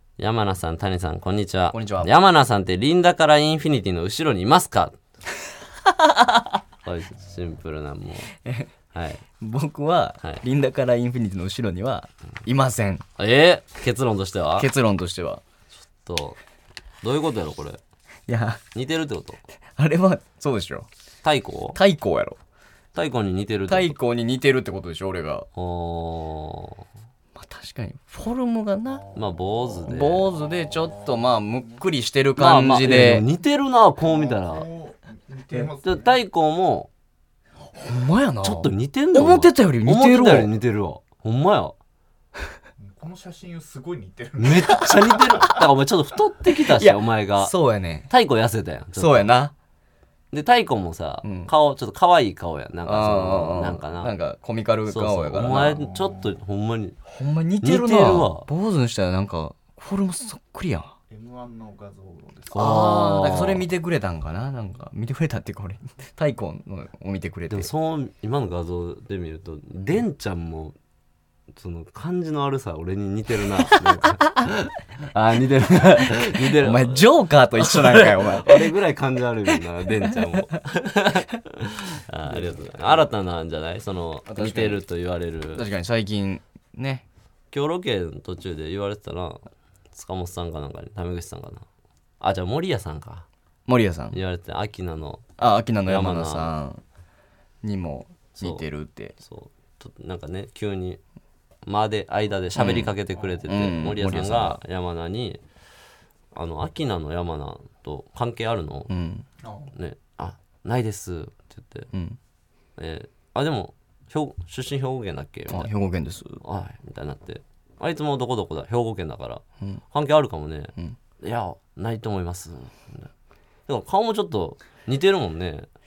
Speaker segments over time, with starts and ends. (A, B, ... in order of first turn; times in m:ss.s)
0:00.2-0:05.0 A
0:01.7-0:02.1 B
0:06.0-0:06.5 B
0:06.8-0:08.3 A
0:08.4-0:08.7 B
0:08.9-0:09.2 A
0:09.4-0:13.0 B
0:13.2-0:14.7 A
0:14.6-0:15.4 B
0:16.0-0:16.4 A
0:17.0-0:17.8 A
0:18.3-0:18.6 B
0:18.7-0:19.4 A
0:19.8-0:20.9 B
0:21.2-0:21.8 A
0:21.8-0:22.4 B
0:23.0-0:24.0 A
0:23.7-0:25.5 B
0:25.6-0:26.8 A
0:27.4-0:29.1 B
0:29.0-0:29.5 C
0:29.2-0:30.3 A
0:29.8-0:33.2 B
0:30.2-0:31.8 C
0:32.4-0:34.7 A
0:34.0-0:36.2 C
0:35.8-0:36.9 A
0:37.8-0:40.5 B
0:38.4-0:41.8 A
0:42.8-0:45.5 C
0:44.4-0:47.5 A
0:46.6-0:48.1 B
0:48.1-0:49.3 A
0:49.0-0:49.5 B
0:50.3-0:54.1 A
0:51.2-0:51.5 B
0:52.8-0:55.8 B
0:54.9-0:57.0 A
0:55.9-0:56.3 C
0:57.1-1:00.9 B
0:57.6-0:58.5 A
1:01.1-1:02.9 C
1:02.5-1:03.7 A
1:02.5-1:07.7 B
1:07.5-1:10.8 A
1:11.6-1:25.7 A
1:16.0-1:18.7 B
1:20.0-1:20.6 B
1:22.3-1:22.7 B
1:24.3-1:24.8 B
1:25.6-1:27.0 B
1:27.5-1:31.6 A
1:32.2-1:33.3 A
1:33.7-1:34.2 B
1:34.1-1:35.3 A
1:35.4-1:36.8 B
1:35.9-1:36.5 A
1:37.6-1:39.2 B
1:38.4-1:38.6 A
1:39.2-1:41.0 A
1:41.6-1:45.4 A
1:42.6-1:44.6 B
1:46.4-1:48.9 A
1:48.9-1:49.3 B
1:49.4-1:49.7 C
1:49.7-1:51.9 A
1:51.9-1:52.2 B
1:52.8-1:55.7 A
1:55.5-1:56.4 B
1:56.4-2:03.1 A
2:03.7-2:05.7 A